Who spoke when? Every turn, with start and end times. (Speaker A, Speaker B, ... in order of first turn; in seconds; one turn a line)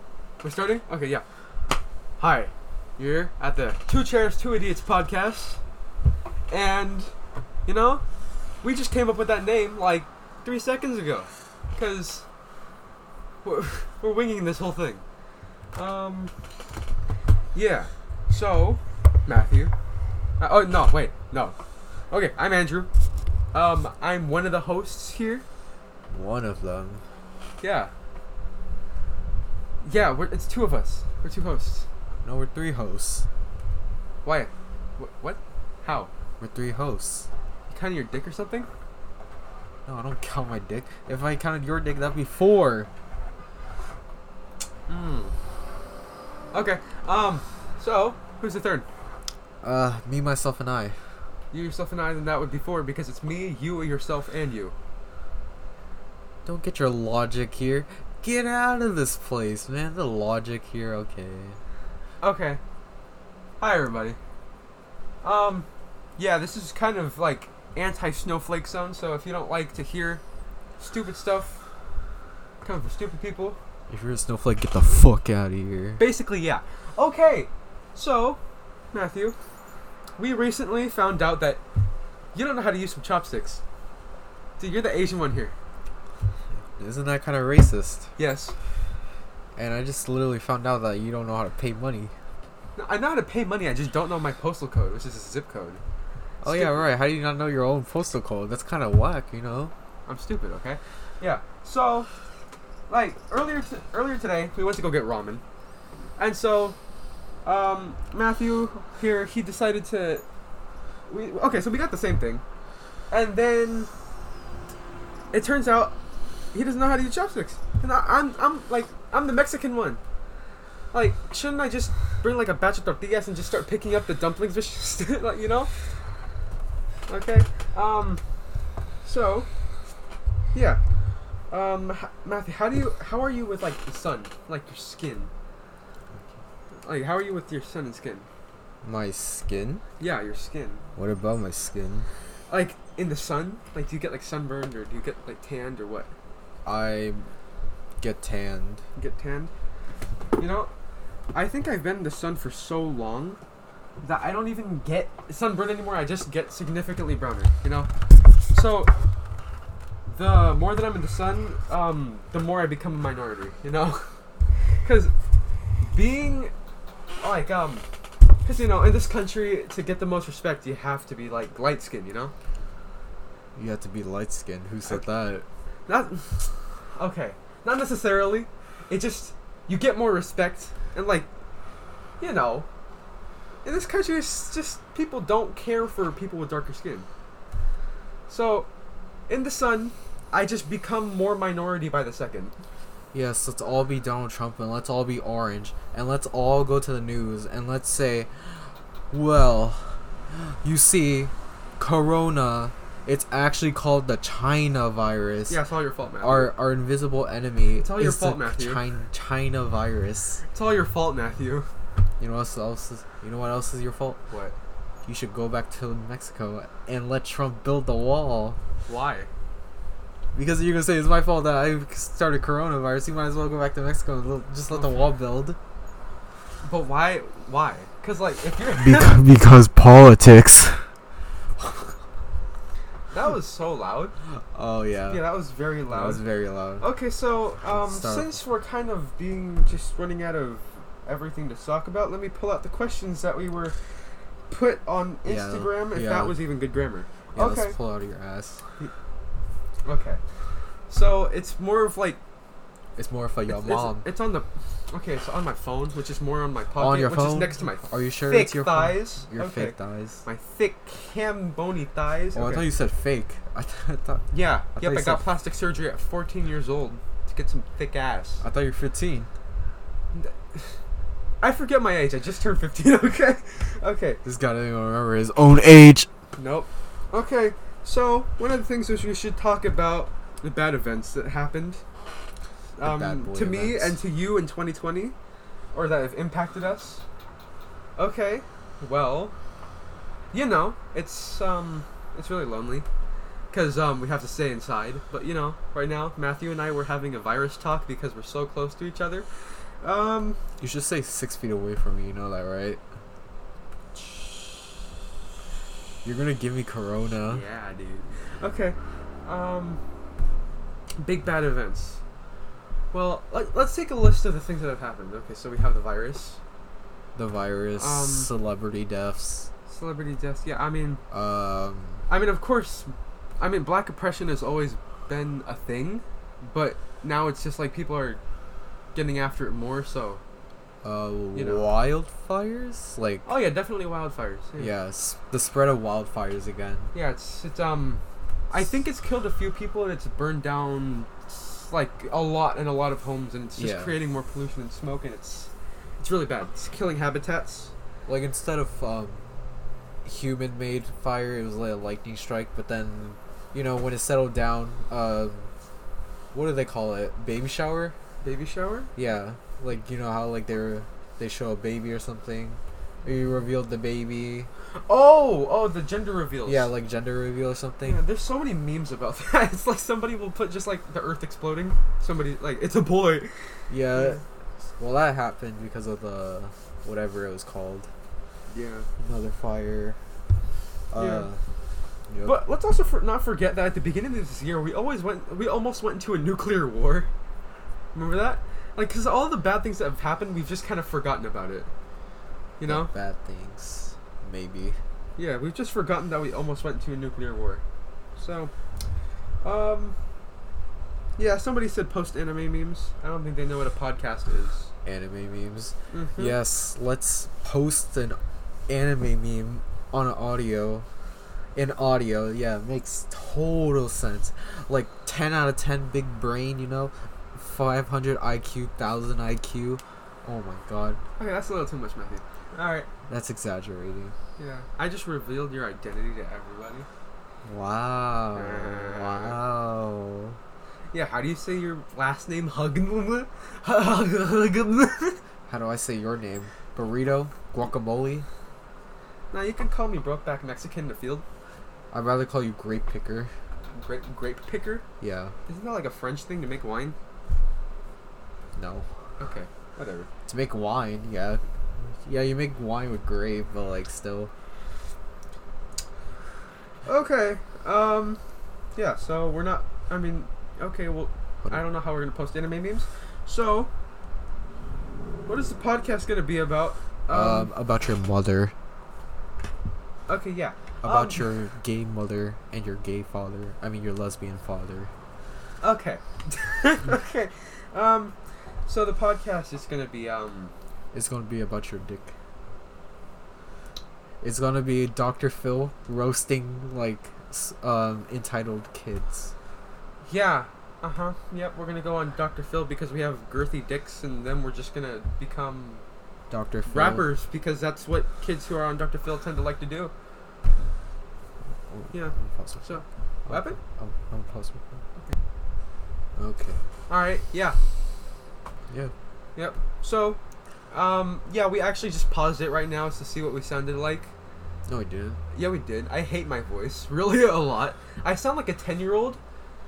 Speaker A: 0.4-1.2
Speaker A: 2.2-5.6
Speaker A: 6.5-7.1
Speaker A: 7.7-8.0
Speaker A: 8.6-12.2
Speaker A: 13.4-15.0
Speaker A: 15.7-16.3
Speaker A: 17.5-19.7
Speaker A: 20.4-21.5
Speaker A: 22.1-22.9
Speaker A: 23.5-25.4
Speaker B: 26.1-27.0
Speaker A: 27.6-27.9
Speaker A: 29.8-31.9
Speaker B: 32.2-33.2
Speaker A: 34.2-36.1
Speaker B: 36.4-37.3
Speaker A: 37.7-38.7
Speaker B: 39.9-42.9
Speaker A: 44.9-45.3
Speaker A: 46.5-48.9
Speaker B: 49.6-51.0
Speaker A: 51.5-54.7
Speaker B: 56.4-61.6
Speaker A: 62.2-62.6
Speaker A: 63.6-64.2
Speaker A: 65.2-70.2
Speaker A: 70.8-71.6
Speaker A: 72.6-73.6
Speaker B: 73.9-76.0
Speaker A: 76.0-78.4
Speaker A: 78.9-79.3
Speaker A: 80.2-81.6
Speaker A: 82.3-83.6
Speaker A: 84.6-85.5
Speaker B: 86.5-88.1
Speaker A: 88.2-88.5
Speaker B: 89.5-92.1
Speaker A: 92.8-95.8
Speaker B: 96.4-99.7
Speaker A: 96.4-96.8
Speaker A: 100.1-102.1
Speaker A: 102.9-105.4
Speaker A: 106.2-106.8
Speaker A: 107.4-110.2
Speaker A: 111.1-112.4
Speaker A: 113.1-113.9
Speaker A: 115.3-116.0
Speaker A: 116.5-120.0
Speaker A: 120.9-125.7
Speaker A: 127.1-128.2
Speaker A: 129.0-129.5
Speaker A: 130.5-130.8
Speaker A: 131.5-135.3
Speaker A: 136.8-138.3
Speaker B: 138.8-139.8
Speaker A: 140.0-140.8
Speaker B: 140.9-142.1
Speaker A: 142.5-146.1
Speaker B: 146.6-147.3
Speaker B: 148.0-148.8
Speaker A: 148.9-149.5
Speaker A: 150.4-150.7
Speaker A: 151.3-153.4
Speaker A: 154.0-157.9
Speaker A: 158.5-158.9
Speaker A: 160.1-164.0
Speaker A: 164.8-165.1
Speaker A: 165.8-166.5
Speaker A: 167.2-167.8
Speaker A: 168.4-172.3
Speaker B: 173.6-175.4
Speaker A: 175.9-181.3
Speaker A: 182.2-182.7
Speaker A: 183.6-187.1
Speaker A: 188.3-188.7
Speaker A: 189.3-192.5
Speaker B: 193.1-198.6
Speaker B: 199.1-205.6
Speaker A: 205.5-206.5
Speaker B: 206.2-210.4
Speaker A: 207.8-208.8
Speaker A: 210.5-211.7
Speaker B: 212.2-214.2
Speaker A: 214.3-214.6
Speaker B: 215.0-218.6
Speaker A: 218.8-219.3
Speaker B: 220.3-225.6
Speaker A: 224.7-225.1
Speaker A: 226.6-229.2
Speaker B: 228.7-230.8
Speaker B: 231.6-231.9
Speaker A: 233.1-234.1
Speaker B: 234.3-235.3
Speaker A: 235.1-236.2
Speaker B: 235.9-236.9
Speaker A: 236.8-243.7
Speaker B: 237.6-238.4
Speaker A: 244.5-247.8
Speaker B: 245.2-246.4
Speaker B: 247.3-248.6
Speaker A: 249.8-250.2
Speaker A: 250.9-252.2
Speaker B: 252.9-254.1
Speaker A: 253.5-262.7
Speaker B: 256.8-260.2
Speaker B: 262.3-265.3
Speaker A: 264.3-268.4
Speaker B: 268.4-269.3
Speaker A: 270.1-270.7
Speaker A: 271.4-274.2
Speaker B: 274.2-276.1
Speaker A: 276.4-281.8
Speaker A: 282.8-285.1
Speaker B: 282.8-284.0
Speaker A: 285.7-287.0
Speaker A: 288.0-289.3
Speaker A: 290.3-292.9
Speaker A: 293.5-299.3
Speaker A: 299.8-300.4
Speaker B: 300.6-302.8
Speaker B: 306.0-307.4
Speaker A: 307.3-309.8
Speaker A: 311.0-312.0
Speaker A: 312.9-316.4
Speaker B: 317.1-319.5
Speaker A: 317.8-318.3
Speaker A: 319.7-321.0
Speaker B: 321.1-322.0
Speaker A: 322.1-328.2
Speaker A: 328.9-330.2
Speaker B: 330.8-333.3
Speaker A: 331.3-331.7
Speaker A: 333.2-334.7
Speaker B: 334.6-336.9
Speaker A: 336.9-347.7
Speaker B: 343.6-344.0
Speaker B: 348.1-349.2
Speaker B: 350.0-355.5
Speaker B: 356.3-357.9
Speaker A: 358.2-358.9
Speaker B: 358.9-364.5
Speaker A: 364.9-366.7
Speaker B: 366.4-368.0
Speaker A: 367.8-373.3
Speaker B: 373.7-377.9
Speaker A: 373.9-374.2
Speaker A: 378.5-378.9
Speaker B: 379.0-380.0
Speaker B: 380.9-381.4
Speaker A: 380.9-381.3
Speaker B: 382.1-382.4
Speaker A: 382.2-387.1
Speaker A: 387.9-391.7
Speaker A: 392.6-392.9
Speaker B: 392.6-394.8
Speaker A: 395.2-397.6
Speaker A: 398.2-398.5
Speaker A: 399.4-399.9
Speaker A: 401.2-404.7
Speaker B: 404.8-410.9
Speaker A: 405.9-406.4
Speaker B: 411.5-421.0
Speaker A: 421.2-422.9
Speaker B: 423.1-424.1
Speaker A: 424.4-426.9
Speaker B: 427.4-430.4
Speaker A: 428.3-429.4
Speaker A: 430.9-435.2
Speaker B: 435.5-438.3
Speaker A: 439.3-441.2
Speaker B: 441.9-443.3
Speaker A: 443.7-444.8
Speaker B: 445.0-445.3
Speaker A: 445.5-446.9
Speaker B: 448.5-448.9
Speaker A: 449.2-450.1
Speaker B: 450.2-454.3
Speaker A: 456.9-458.2
Speaker A: 458.8-463.7
Speaker A: 465.3-467.5
Speaker B: 467.1-468.5
Speaker A: 470.1-471.3
Speaker B: 470.8-474.9
Speaker A: 475.6-478.1
Speaker A: 478.7-480.5
Speaker B: 480.9-482.1
Speaker B: 484.2-489.3
Speaker A: 490.0-495.8
Speaker B: 496.3-497.1
Speaker A: 496.7-499.9
Speaker B: 501.5-504.8
Speaker A: 501.9-503.6
Speaker B: 506.1-506.6
Speaker A: 506.9-507.6
Speaker B: 508.7-508.9
Speaker A: 509.4-510.2
Speaker A: 510.7-514.1
Speaker B: 514.7-515.2
Speaker A: 515.3-519.2